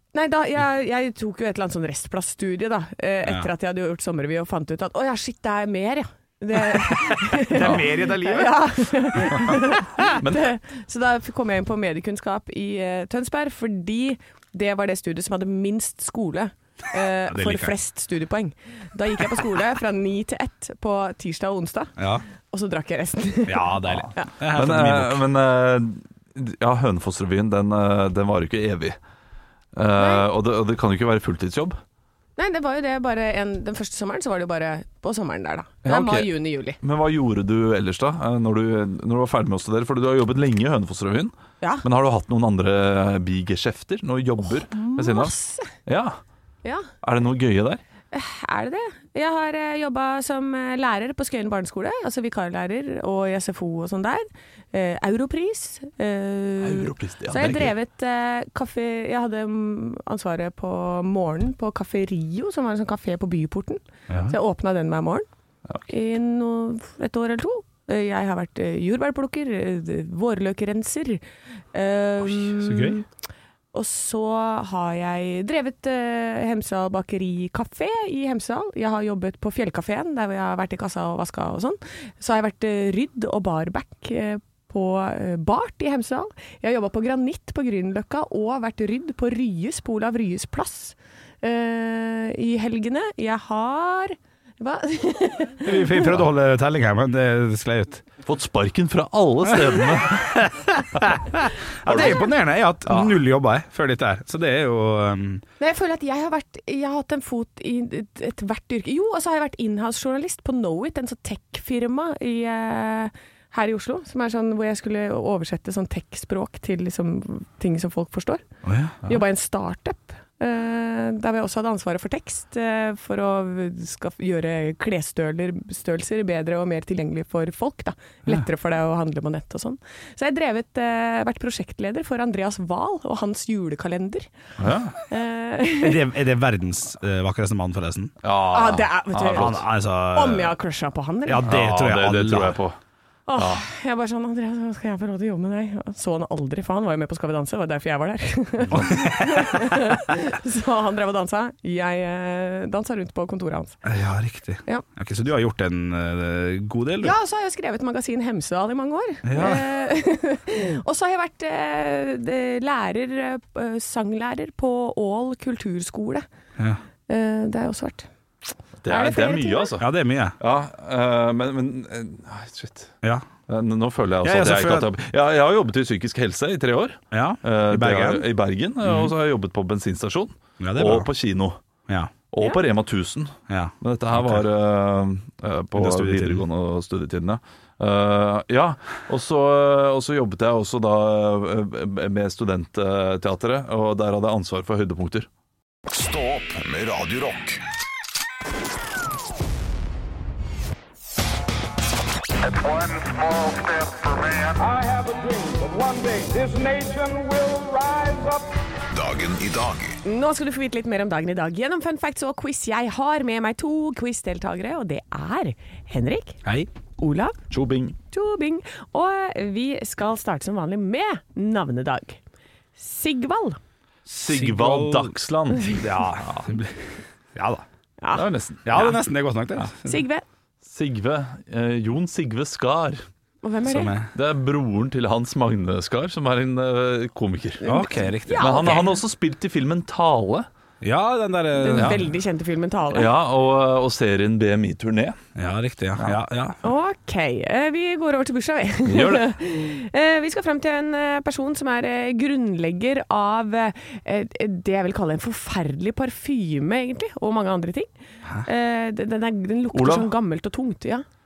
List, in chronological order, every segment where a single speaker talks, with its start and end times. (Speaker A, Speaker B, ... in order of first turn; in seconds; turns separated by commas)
Speaker A: 0.1-21.9, Speaker B: 3.3-3.5, Speaker B: 6.7-9.3, Speaker C: 9.2-10.5, Speaker B: 17.3-17.7, Speaker B: 22.0-22.2, Speaker A: 22.5-24.3, Speaker B: 23.5-25.2, Speaker C: 24.5-29.0, Speaker C: 29.8-31.8, Speaker A: 29.9-30.3, Speaker A: 32.4-36.8, Speaker C: 35.9-46.2, Speaker A: 44.4-45.7, Speaker C: 47.0-47.8, Speaker A: 48.1-65.3, Speaker C: 56.6-57.7, Speaker B: 64.1-64.4, Speaker A: 65.9-73.0, Speaker B: 72.6-73.0, Speaker A: 73.7-96.1, Speaker B: 95.6-98.0, Speaker C: 98.2-100.4, Speaker B: 99.5-105.4, Speaker C: 101.9-102.2, Speaker A: 105.6-118.5, Speaker B: 118.6-119.0, Speaker A: 119.0-134.3, Speaker C: 134.6-134.9, Speaker A: 135.1-136.0, Speaker B: 135.8-138.1, Speaker C: 138.2-139.6, Speaker A: 138.5-141.5, Speaker B: 139.2-140.6, Speaker B: 141.3-142.6, Speaker C: 141.5-142.8, Speaker A: 143.3-153.8, Speaker C: 143.3-143.6, Speaker C: 148.7-149.0, Speaker B: 148.7-149.6, Speaker B: 153.8-157.2, Speaker A: 157.0-166.2, Speaker B: 159.2-159.7, Speaker A: 167.1-168.1, Speaker C: 168.8-169.9, Speaker A: 168.9-169.7, Speaker B: 169.8-170.4, Speaker C: 170.4-172.9, Speaker C: 173.5-181.6, Speaker B: 174.2-174.9, Speaker B: 177.1-178.3, Speaker B: 178.8-179.1, Speaker B: 180.6-181.1, Speaker C: 182.3-195.3, Speaker B: 183.5-184.5, Speaker B: 185.7-186.4, Speaker D: 195.9-197.6, Speaker E: 202.5-208.5, Speaker D: 203.0-204.5, Speaker D: 208.9-210.0, Speaker A: 210.0-216.4, Speaker A: 217.0-217.4, Speaker C: 217.5-218.0, Speaker A: 218.1-222.2, Speaker A: 222.8-223.6, Speaker B: 224.1-225.2, Speaker C: 224.1-226.6, Speaker B: 225.8-227.7, Speaker A: 228.0-228.2, Speaker C: 228.1-229.0, Speaker B: 228.7-230.0, Speaker A: 229.8-230.2, Speaker C: 230.6-233.0, Speaker A: 233.4-233.9, Speaker B: 233.7-234.1, Speaker C: 234.2-237.7, Speaker A: 237.6-239.0, Speaker B: 237.7-238.7, Speaker C: 238.4-240.5, Speaker B: 240.8-242.0, Speaker A: 241.6-243.1, Speaker C: 242.9-245.2, Speaker B: 245.4-246.6, Speaker A: 246.6-257.9, Speaker C: 248.8-249.3, Speaker A: 258.4-261.1, Speaker C: 259.7-260.1